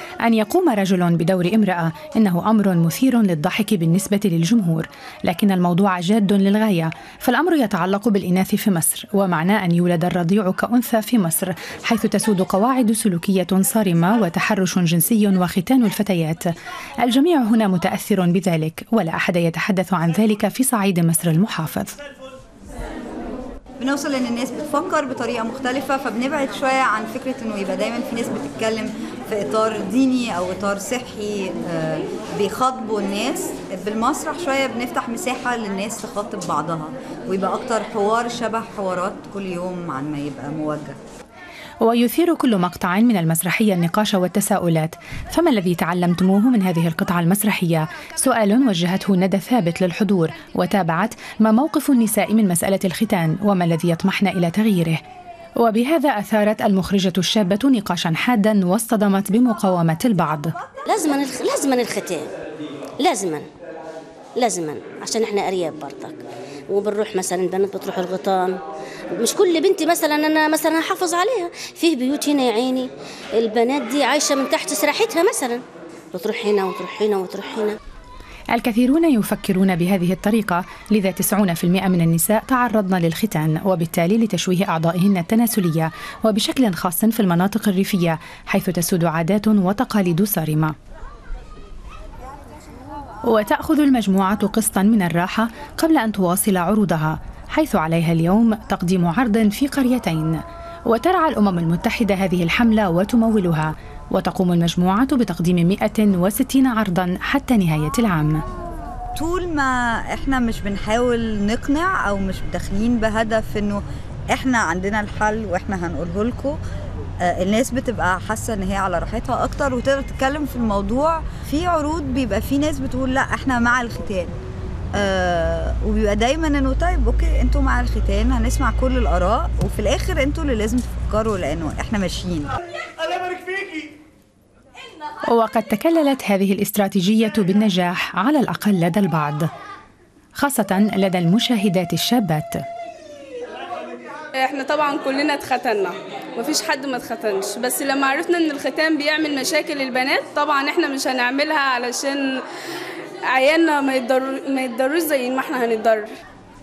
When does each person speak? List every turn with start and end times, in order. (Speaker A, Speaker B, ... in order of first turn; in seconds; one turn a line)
Speaker A: 0.2-21.9
Speaker B: 23.8-41.0
Speaker A: 41.8-55.0
Speaker A: 55.6-60.5
Speaker C: 60.9-62.3
Speaker C: 63.0-63.5
Speaker C: 64.4-68.6
Speaker C: 69.2-75.6
Speaker C: 76.1-77.8
Speaker A: 78.5-90.7
Speaker A: 93.2-108.4
Speaker B: 109.2-116.6
Speaker B: 117.2-124.3
Speaker B: 124.9-132.5
Speaker A: 135.2-139.5
Speaker A: 140.3-142.6
Speaker D: 144.3-152.4
Speaker D: 153.3-156.1